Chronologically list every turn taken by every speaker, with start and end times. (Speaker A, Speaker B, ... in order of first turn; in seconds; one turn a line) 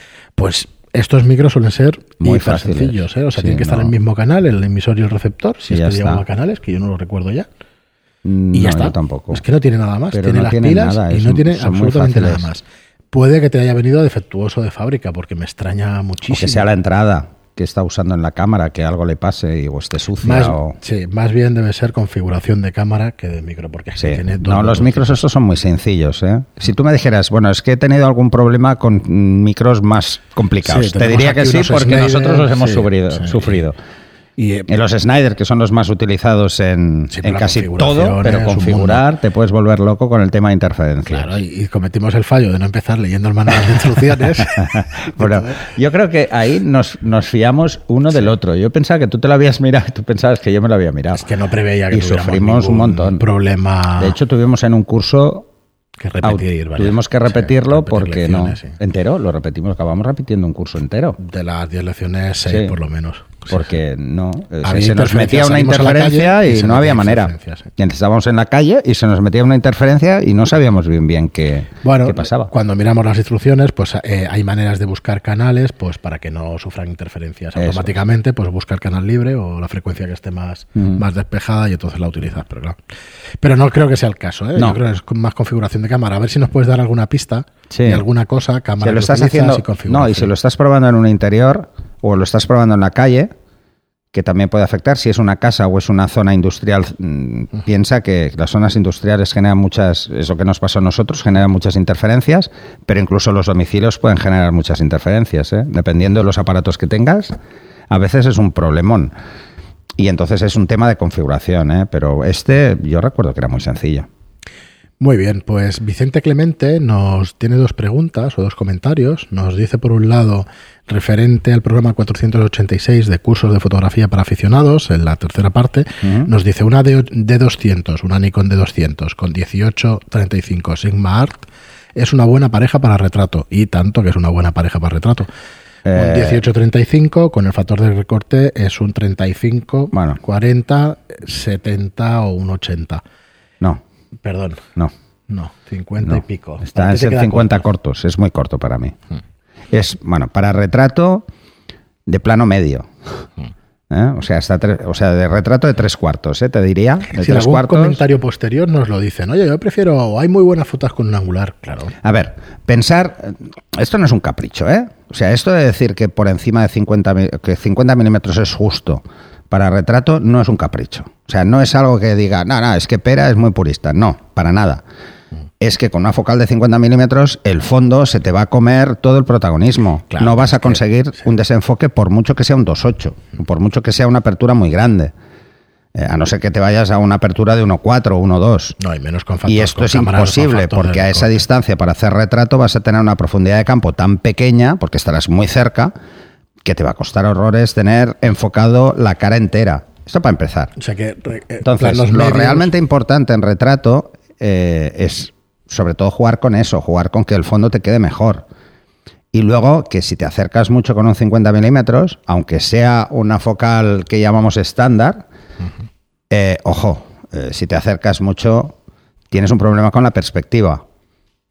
Speaker A: 0.3-7.5
Speaker B: 2.2-3.9
Speaker B: 5.7-6.2
Speaker B: 8.2-9.4
Speaker A: 8.5-16.7
Speaker B: 10.1-12.5
Speaker B: 16.3-20.8
Speaker A: 20.2-25.2
Speaker B: 24.0-33.8
Speaker A: 30.6-33.6
Speaker A: 34.4-34.7
Speaker B: 34.7-41.3
Speaker A: 37.1-39.0
Speaker A: 41.1-45.6
Speaker B: 44.5-51.3
Speaker A: 51.1-54.1
Speaker B: 51.9-53.2
Speaker B: 54.0-55.5
Speaker A: 56.0-58.8
Speaker B: 56.2-61.2
Speaker A: 61.2-63.7
Speaker B: 62.5-62.7
Speaker B: 63.5-72.5
Speaker A: 64.6-67.7
Speaker A: 71.8-82.8
Speaker B: 77.5-78.0
Speaker A: 83.4-90.3
Speaker B: 87.7-88.0
Speaker B: 88.8-93.3
Speaker B: 94.1-107.3
Speaker B: 107.9-109.1
Speaker B: 110.0-114.1
Speaker A: 115.0-135.3
Speaker B: 126.0-126.3
Speaker B: 135.8-136.4
Speaker A: 135.9-143.0
Speaker B: 139.9-140.2
Speaker A: 144.2-144.6
Speaker A: 145.3-147.6
Speaker B: 146.0-148.9
Speaker B: 149.7-151.3
Speaker B: 152.1-153.2
Speaker B: 153.9-158.0
Speaker A: 157.1-161.9
Speaker B: 162.0-174.8
Speaker B: 175.6-185.1
Speaker A: 180.1-180.8
Speaker B: 185.9-188.8
Speaker A: 188.8-191.4
Speaker B: 189.5-195.9
Speaker B: 196.6-200.7
Speaker A: 200.8-202.7
Speaker B: 201.6-208.4
Speaker B: 209.3-215.2
Speaker B: 216.3-218.7
Speaker B: 219.3-220.8